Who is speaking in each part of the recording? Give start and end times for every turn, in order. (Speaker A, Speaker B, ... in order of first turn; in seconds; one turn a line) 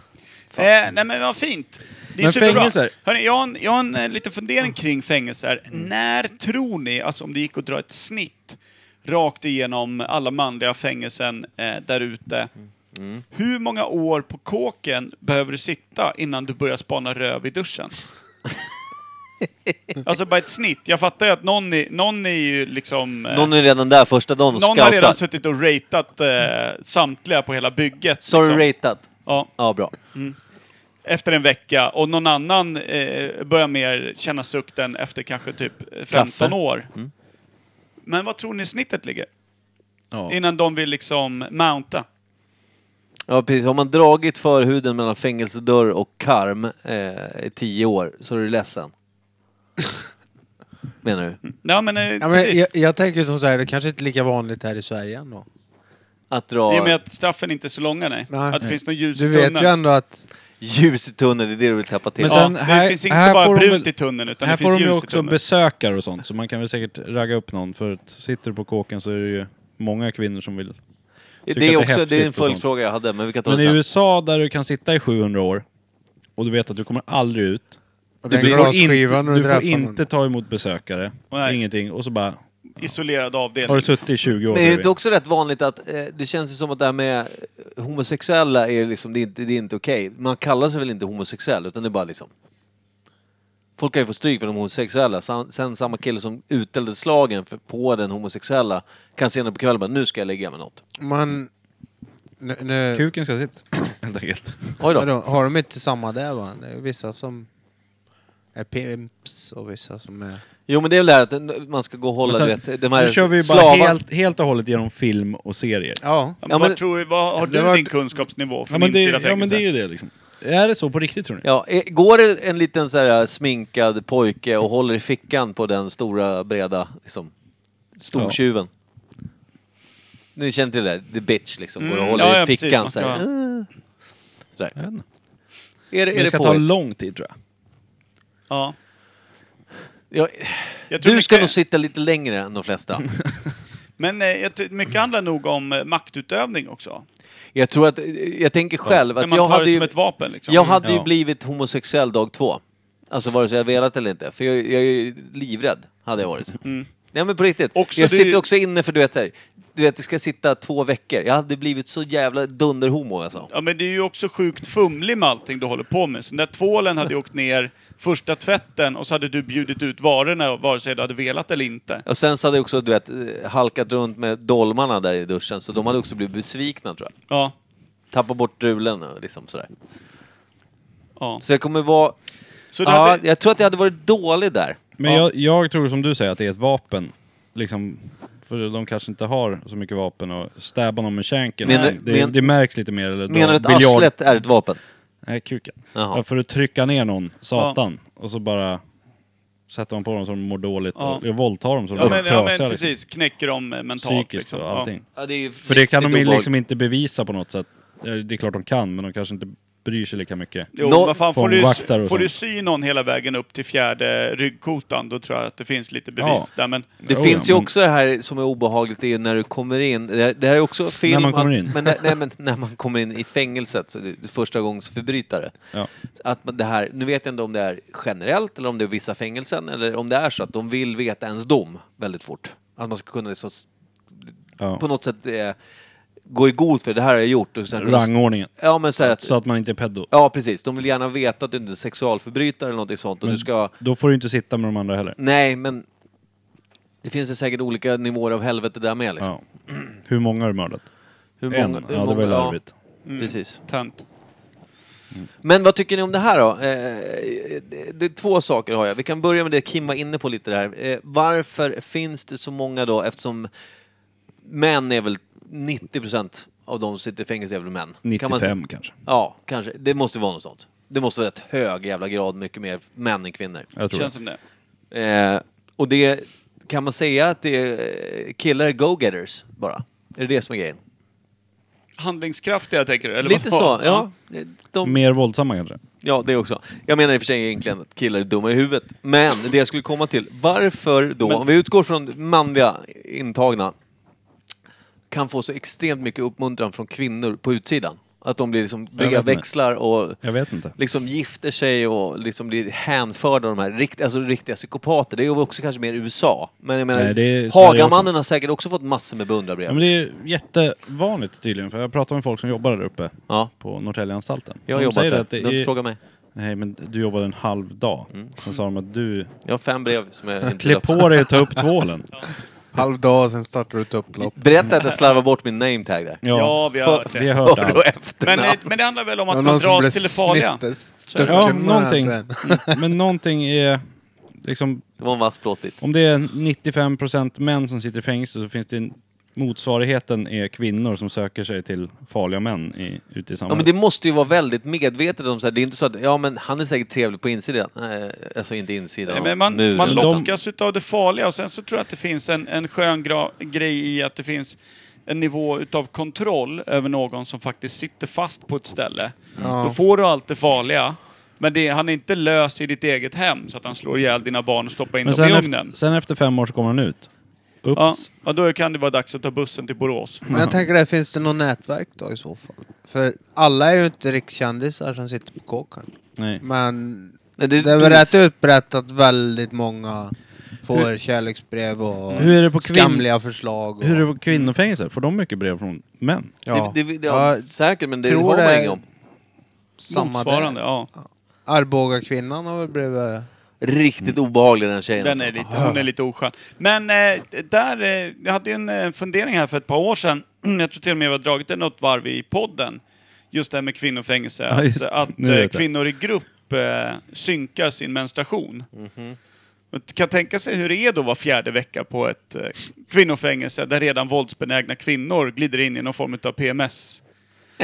Speaker A: 0.5-12.5
Speaker B: 2.2-2.9
Speaker C: 12.9-13.2
Speaker A: 13.3-18.0
Speaker A: 20.0-23.5
Speaker C: 23.3-25.2
Speaker A: 24.5-28.6
Speaker C: 28.2-29.9
Speaker A: 29.2-29.5
Speaker A: 30.0-30.4
Speaker A: 31.0-36.9
Speaker B: 36.1-36.5
Speaker A: 38.0-39.3
Speaker A: 40.3-42.0
Speaker C: 43.3-48.9
Speaker C: 51.0-51.4
Speaker A: 51.5-52.6
Speaker D: 52.2-55.5
Speaker C: 56.3-57.0
Speaker A: 56.7-59.7
Speaker D: 58.3-58.6
Speaker D: 59.1-60.2
Speaker C: 60.6-62.5
Speaker B: 62.2-63.9
Speaker A: 62.3-65.4
Speaker B: 64.4-70.8
Speaker C: 71.5-73.8
Speaker B: 71.5-72.7
Speaker B: 73.4-75.6
Speaker B: 76.4-82.4
Speaker D: 78.2-80.0
Speaker A: 81.3-81.6
Speaker A: 82.8-84.1
Speaker B: 83.7-84.9
Speaker C: 84.5-92.3
Speaker C: 93.8-100.8
Speaker D: 101.0-101.5
Speaker D: 102.4-103.0
Speaker B: 102.9-104.8
Speaker C: 104.8-105.1
Speaker D: 104.9-107.5
Speaker D: 108.5-110.4
Speaker C: 110.7-114.0
Speaker B: 112.2-116.0
Speaker D: 116.0-116.4
Speaker A: 116.4-119.6
Speaker C: 116.5-116.8
Speaker D: 117.4-117.9
Speaker B: 118.7-121.4
Speaker C: 121.4-127.3
Speaker C: 128.0-128.7
Speaker C: 130.3-133.7
Speaker A: 131.8-133.2
Speaker B: 134.8-135.0
Speaker C: 135.9-136.6
Speaker B: 136.1-137.3
Speaker A: 138.5-138.7
Speaker C: 140.1-143.1
Speaker A: 140.9-141.5
Speaker A: 144.0-147.0
Speaker C: 147.5-149.9
Speaker A: 149.2-150.8
Speaker C: 150.5-156.6
Speaker B: 150.8-151.1
Speaker A: 156.6-156.9
Speaker C: 157.1-163.5
Speaker A: 157.7-158.4
Speaker A: 163.5-172.0
Speaker C: 172.1-177.1
Speaker A: 177.3-177.5
Speaker C: 178.1-179.7
Speaker A: 181.2-181.4
Speaker C: 181.4-182.1
Speaker A: 182.7-183.2
Speaker C: 182.8-184.8
Speaker B: 185.0-194.1
Speaker C: 191.6-192.4
Speaker A: 191.7-192.0
Speaker C: 193.3-194.8
Speaker B: 195.2-198.8
Speaker C: 195.9-196.2
Speaker B: 199.7-202.9
Speaker A: 200.9-201.2
Speaker A: 201.9-204.9
Speaker B: 204.0-205.1
Speaker C: 205.2-206.5
Speaker B: 205.6-212.3
Speaker A: 210.7-216.9
Speaker C: 210.8-211.1
Speaker B: 216.2-217.7
Speaker C: 217.1-225.6
Speaker B: 221.0-221.9
Speaker C: 226.2-235.6
Speaker C: 236.3-239.3
Speaker B: 237.7-240.1
Speaker C: 240.1-243.7
Speaker B: 243.2-245.2
Speaker C: 245.2-245.8
Speaker C: 247.0-249.3
Speaker B: 249.2-250.9
Speaker C: 251.4-252.6
Speaker B: 251.5-252.7
Speaker A: 253.1-254.0
Speaker C: 253.2-253.6
Speaker C: 255.4-263.5
Speaker C: 264.4-273.7
Speaker B: 268.0-268.9
Speaker B: 273.8-274.1
Speaker A: 273.9-274.4
Speaker C: 274.9-280.8
Speaker A: 282.0-284.1
Speaker C: 283.2-285.0
Speaker B: 284.8-285.8
Speaker C: 286.0-293.7
Speaker C: 295.1-300.2
Speaker B: 299.0-299.4
Speaker B: 300.2-300.8
Speaker C: 300.8-309.9
Speaker B: 306.9-308.1
Speaker B: 309.7-315.7
Speaker C: 314.7-316.0
Speaker B: 316.3-319.3
Speaker C: 319.4-321.6
Speaker B: 320.6-322.1
Speaker D: 322.7-324.4
Speaker C: 324.3-326.2
Speaker B: 326.2-327.9
Speaker A: 326.3-327.4
Speaker C: 326.8-328.6
Speaker A: 328.2-331.6
Speaker D: 329.3-332.8
Speaker B: 331.2-333.8
Speaker B: 334.4-334.9
Speaker C: 335.0-335.8
Speaker B: 335.8-343.7
Speaker C: 343.5-350.2
Speaker A: 349.1-365.7
Speaker B: 349.8-350.3
Speaker D: 359.4-359.8
Speaker B: 365.0-367.1
Speaker B: 367.6-368.0
Speaker A: 367.7-370.2
Speaker B: 370.3-370.6
Speaker D: 370.3-375.9
Speaker B: 376.2-376.4
Speaker D: 376.4-384.1
Speaker C: 377.4-378.1
Speaker B: 382.1-383.1
Speaker B: 383.8-386.3
Speaker D: 386.4-387.5
Speaker C: 386.5-388.8
Speaker D: 388.0-388.8
Speaker D: 389.8-393.3
Speaker A: 389.9-390.9
Speaker C: 393.6-395.4
Speaker A: 395.0-408.7
Speaker D: 395.5-395.8
Speaker B: 404.5-405.6
Speaker C: 408.7-409.2
Speaker A: 409.7-417.0